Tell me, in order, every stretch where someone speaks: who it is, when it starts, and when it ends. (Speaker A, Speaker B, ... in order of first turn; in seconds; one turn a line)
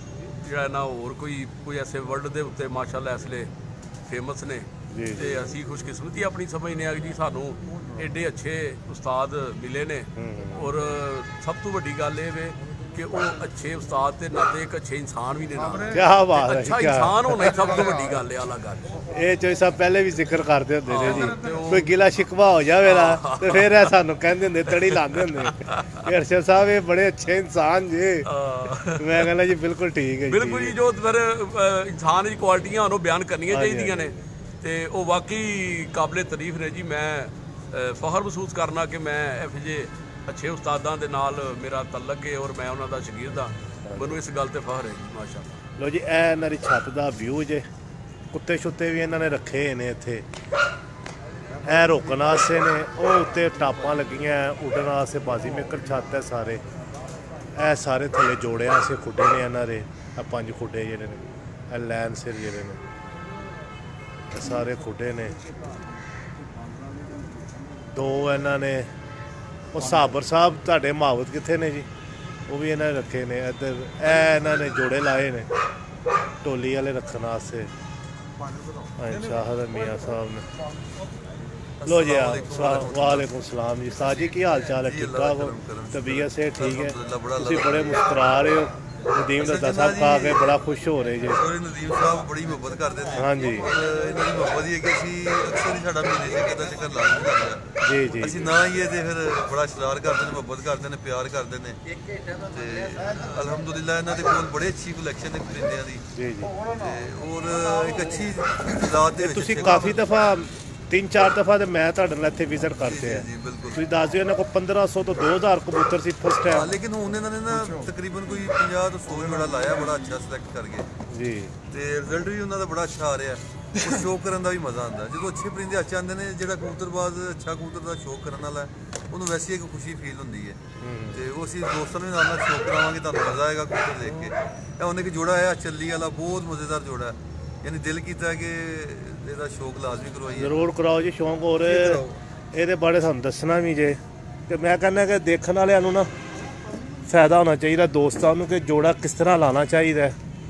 Speaker A: 0.2-3.5
Speaker A: 4.1-18.9
Speaker B: 4.9-5.5
Speaker B: 10.2-10.7
Speaker B: 15.9-17.8
Speaker B: 19.1-28.3
Speaker A: 20.9-21.9
Speaker A: 22.9-23.9
Speaker A: 24.7-25.9
Speaker A: 28.3-29.3
Speaker B: 28.9-30.8
Speaker A: 30.3-45.6
Speaker B: 33.5-34.2
Speaker B: 43.9-44.1
Speaker B: 45.8-47.7
Speaker B: 48.3-50.2
Speaker B: 51.6-56.6
Speaker B: 57.6-62.8
Speaker B: 64.3-65.4
Speaker B: 67.9-68.9
Speaker B: 69.7-71.9
Speaker B: 72.5-75.5
Speaker B: 76.4-77.7
Speaker B: 79.0-80.5
Speaker C: 81.8-83.3
Speaker B: 81.9-91.4
Speaker C: 84.6-88.2
Speaker C: 89.4-90.6
Speaker C: 91.2-97.6
Speaker B: 93.1-93.7
Speaker B: 97.8-98.6
Speaker C: 98.2-101.8
Speaker C: 102.4-106.0
Speaker B: 106.1-106.6
Speaker C: 106.7-110.1
Speaker B: 109.2-116.7
Speaker C: 112.8-113.8
Speaker C: 116.5-120.9
Speaker B: 121.1-121.5
Speaker C: 121.7-130.6
Speaker B: 130.8-131.2
Speaker C: 131.1-140.6
Speaker B: 140.4-146.1
Speaker C: 141.6-142.2
Speaker B: 147.1-150.2